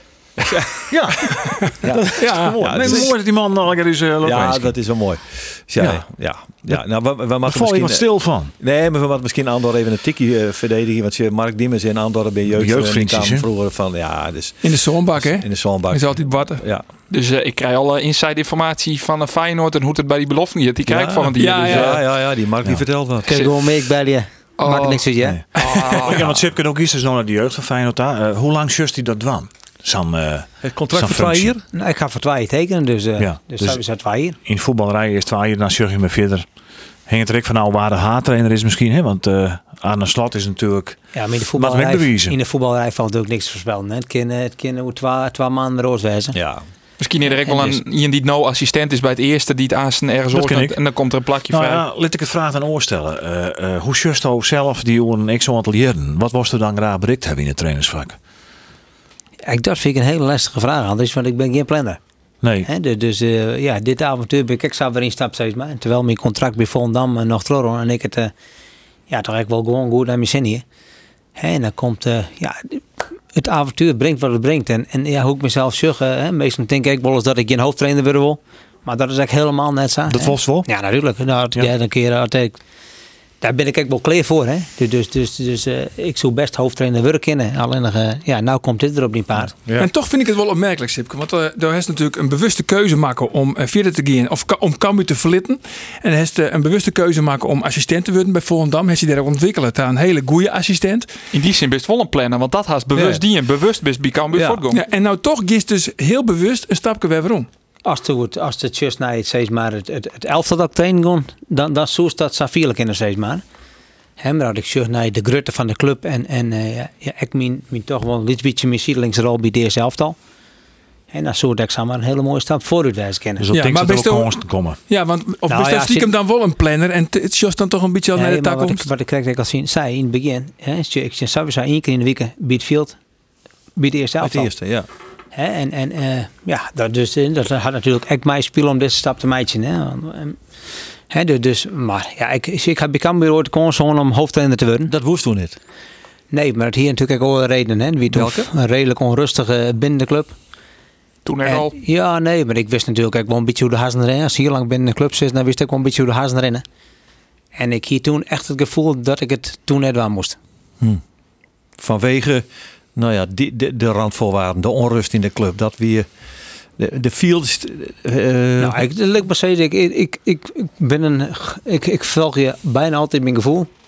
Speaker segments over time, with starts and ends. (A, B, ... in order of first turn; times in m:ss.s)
0:00.5-0:00.8 A
0:00.9-0:04.8 B
0:01.8-0:03.1 A
0:02.2-0:03.1 C
0:04.2-0:08.1 A
0:05.8-0:06.0 B
0:07.5-0:08.5 B
0:08.6-0:14.6 A
0:12.5-0:13.5 B
0:14.6-0:16.6 C
0:15.2-0:16.8 A
0:17.1-0:22.0 D
0:20.9-0:23.4 A
0:21.4-0:22.0 C
0:23.2-0:25.4 E
0:24.6-0:26.3 D
0:25.2-0:31.6 B
0:30.6-0:31.6 A
0:31.7-0:34.4 E
0:33.2-0:33.8 B
0:34.4-0:36.5 B
0:37.1-0:41.0 B
0:41.1-0:46.4 E
0:41.6-0:42.4 B
0:46.3-0:46.6 A
0:47.0-0:51.8 D
0:47.4-0:47.8 E
0:50.3-0:50.8 B
0:51.5-0:58.2 B
0:59.5-1:02.0 E
1:02.4-1:02.7 B
1:02.6-1:08.3 E
1:09.1-1:10.6 E
1:11.4-1:12.8 E
1:13.3-1:22.6 E
1:20.1-1:20.7 B
1:23.4-1:29.6 E
1:29.8-1:41.1 C
1:41.3-1:44.8 D
1:44.3-1:44.6 A
1:44.7-1:47.5 C
1:47.8-1:53.4 E
1:54.2-2:00.2 E
2:01.1-2:03.5 E
2:03.4-2:04.8 B
2:03.5-2:04.4 C
2:04.9-2:08.9 C
2:05.5-2:06.1 E
2:08.2-2:13.0 E
2:13.8-2:14.5 E
2:14.2-2:14.9 A
2:15.3-2:20.4 E
2:21.1-2:24.9 E
2:24.9-2:25.6 A
2:26.3-2:30.3 E
2:28.1-2:28.5 A
2:31.3-2:31.7 D
2:31.4-2:36.6 E
2:37.6-2:40.4 E
2:41.8-2:42.4 A
2:43.0-2:46.1 A
2:46.8-2:48.8 A
2:48.6-2:53.7 E